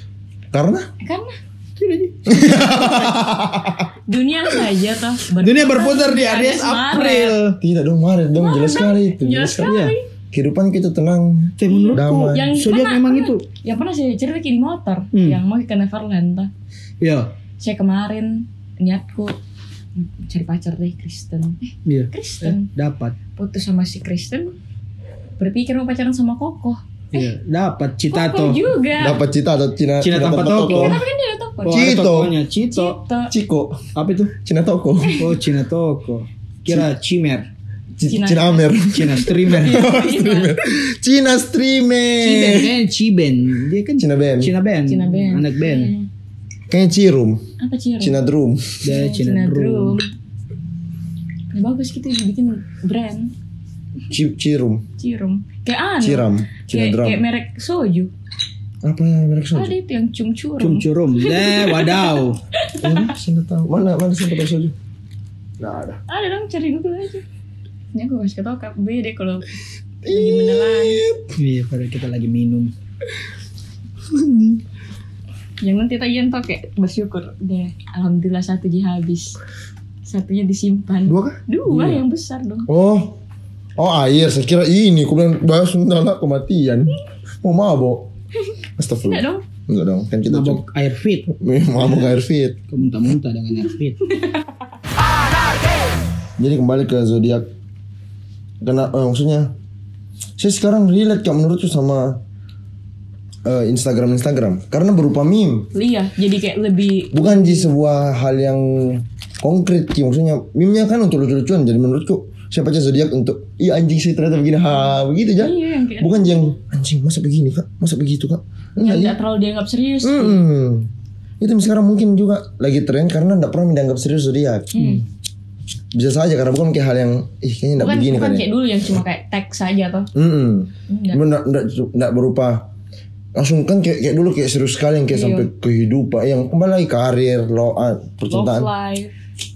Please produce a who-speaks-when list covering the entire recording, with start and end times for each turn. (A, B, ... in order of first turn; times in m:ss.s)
0:00.5-0:00.9 A
0:01.0-0:01.3 B
0:01.8-0:03.1 C
0:02.3-0:03.9 A
0:04.1-0:07.4 B
0:05.4-0:07.6 C
0:07.6-0:09.8 A
0:08.4-0:10.0 B
0:09.6-0:09.9 C
0:10.3-0:12.5 A
0:11.6-0:13.4 C
0:11.6-0:16.5 B
0:15.1-0:15.4 C
0:17.0-0:17.3 C
0:17.6-0:19.4 B
0:20.0-0:22.7 B
0:21.8-0:23.2 C
0:23.4-0:24.5 B
0:25.4-0:27.3 B
0:27.1-0:28.6 C
0:28.1-0:29.2 B
0:29.0-0:31.0 A
0:30.0-0:31.0 C
0:30.7-0:31.9 B
0:31.6-0:33.0 C
0:31.7-0:32.4 A
0:32.7-0:33.3 B
0:33.3-0:33.8 A
0:33.9-0:34.3 C
0:34.4-0:35.3 A
0:35.2-0:37.5 C
0:38.0-0:42.8 A
0:38.0-0:38.8 B
0:38.9-0:39.9 C
0:39.4-0:40.5 B
0:42.2-0:45.9 C
0:44.0-0:44.5 A
0:44.9-0:46.1 B
0:46.7-0:47.4 A
0:47.6-0:48.2 B
0:48.0-0:48.8 A
0:48.8-0:50.0 C
0:48.8-0:50.1 B
0:51.5-0:53.3 B
0:54.1-0:54.8 A
0:55.0-0:58.1 B
0:56.0-0:57.2 A
0:58.8-0:59.7 A
0:59.5-1:03.1 B
1:00.6-1:02.4 C
1:02.8-1:04.7 A
1:05.6-1:06.0 A
1:06.1-1:07.2 B
1:07.9-1:09.5 B
1:10.0-1:11.3 A
1:10.1-1:11.0 B
1:11.4-1:12.7 C
1:14.1-1:14.6 A
1:15.6-1:19.4 B
1:20.0-1:22.7 B
1:21.0-1:21.4 A
1:21.7-1:22.0 C
1:22.7-1:23.2 A
1:23.8-1:28.1 A
1:28.8-1:30.6 A
1:29.0-1:29.4 B
1:30.3-1:32.2 C
1:31.3-1:32.6 A
1:32.7-1:34.0 C
1:36.4-1:37.4 A
1:38.6-1:39.5 A
1:40.4-1:42.2 A
1:43.4-1:45.7 A
1:45.7-1:47.7 B
1:47.1-1:59.2 A
1:55.4-1:56.5 B
1:58.8-2:00.4 B
2:00.0-2:04.8 A
2:04.7-2:05.0 B
2:05.9-2:08.5 A
2:07.8-2:10.1 B
2:10.1-2:12.7 A
2:10.9-2:11.2 B
2:13.4-2:18.7 A
2:15.1-2:15.5 B
2:18.3-2:19.1 B